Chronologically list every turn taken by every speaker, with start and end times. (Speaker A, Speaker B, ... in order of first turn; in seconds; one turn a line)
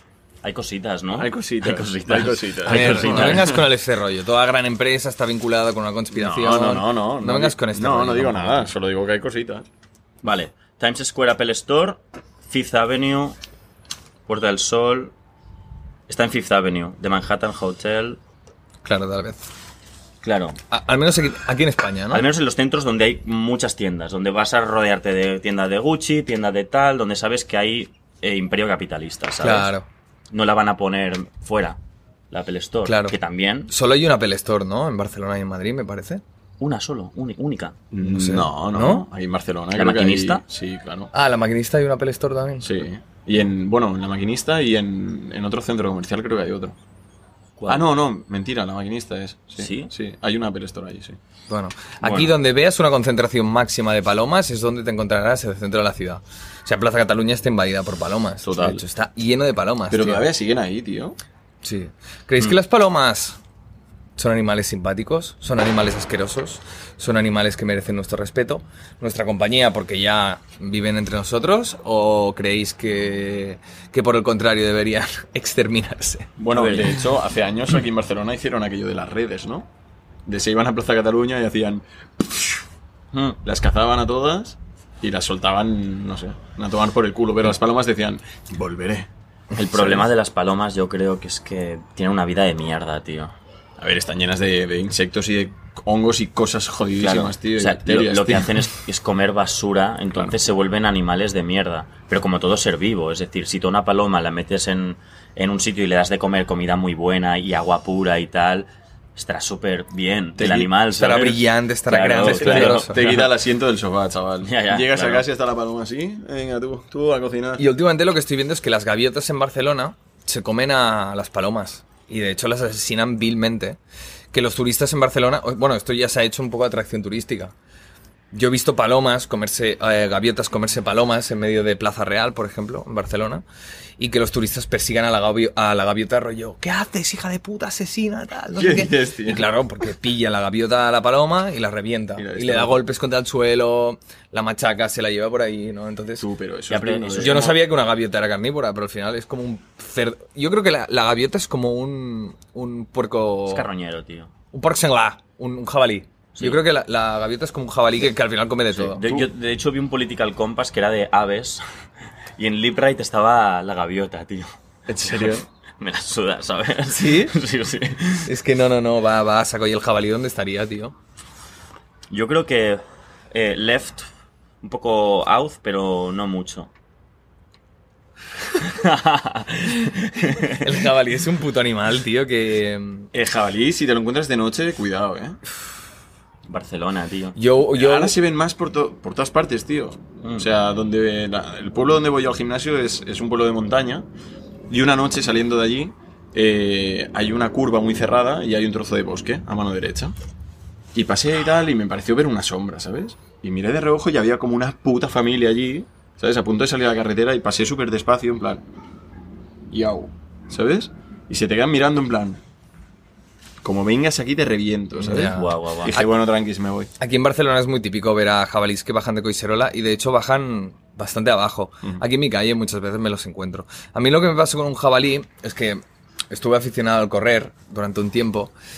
Speaker A: 0.4-3.6
Speaker B: 1.1-3.6
Speaker C: 2.7-8.7
Speaker B: 6.1-9.7
Speaker A: 10.2-13.4
Speaker A: 14.3-15.1
Speaker A: 16.1-18.2
Speaker C: 18.8-19.4
Speaker A: 20.2-20.6
Speaker C: 20.7-22.2
Speaker A: 22.1-29.7
Speaker C: 29.4-29.9
Speaker A: 30.3-31.8
Speaker A: 32.3-33.7
Speaker C: 32.9-33.2
Speaker C: 33.7-36.2
Speaker A: 36.6-37.8
Speaker B: 37.9-41.1
Speaker C: 38.0-39.1
Speaker A: 39.8-40.4
Speaker C: 41.1-42.8
Speaker B: 42.6-46.8
Speaker A: 47.6-47.9
Speaker B: 47.7-51.2
Speaker A: 49.6-49.9
Speaker C: 51.5-60.3
Speaker A: 52.0-52.3
Speaker B: 58.4-58.8
Speaker B: 59.9-61.2
Speaker C: 61.6-63.4
Speaker C: 64.2-77.0
Speaker B: 76.4-79.7
Speaker B: 80.3-82.6
Speaker B: 83.4-89.1
Speaker A: 89.5-93.3
Speaker B: 89.7-90.0
Speaker B: 93.8-98.7
Speaker A: 97.0-113.3
Speaker B: 110.4-110.7
Speaker C: 111.0-113.1
Speaker B: 112.2-117.7
Speaker A: 114.4-115.2
Speaker C: 117.6-123.8
Speaker C: 124.3-127.5
Speaker C: 128.3-133.4
Speaker C: 134.0-146.3
Speaker B: 138.6-139.5
Speaker B: 142.2-142.8
Speaker B: 146.2-147.6
Speaker A: 146.7-147.6
Speaker C: 147.2-153.7
Speaker A: 153.5-154.3
Speaker C: 154.5-159.0
Speaker B: 158.9-159.3
Speaker A: 159.0-161.6
Speaker A: 162.4-168.3
Speaker B: 164.9-165.4
Speaker C: 166.9-167.4
Speaker C: 168.2-170.9
Speaker A: 172.1-174.1
Speaker A: 174.6-176.7
Speaker A: 178.5-180.7
Speaker C: 180.5-183.1
Speaker B: 183.1-185.4
Speaker A: 186.5-187.4
Speaker C: 187.4-188.2
Speaker B: 187.7-194.1
Speaker B: 194.7-200.2
Speaker B: 200.9-208.6
Speaker B: 209.7-212.4
Speaker B: 213.6-216.9
Speaker C: 215.0-216.1
Speaker A: 215.0-216.0
Speaker C: 217.0-228.5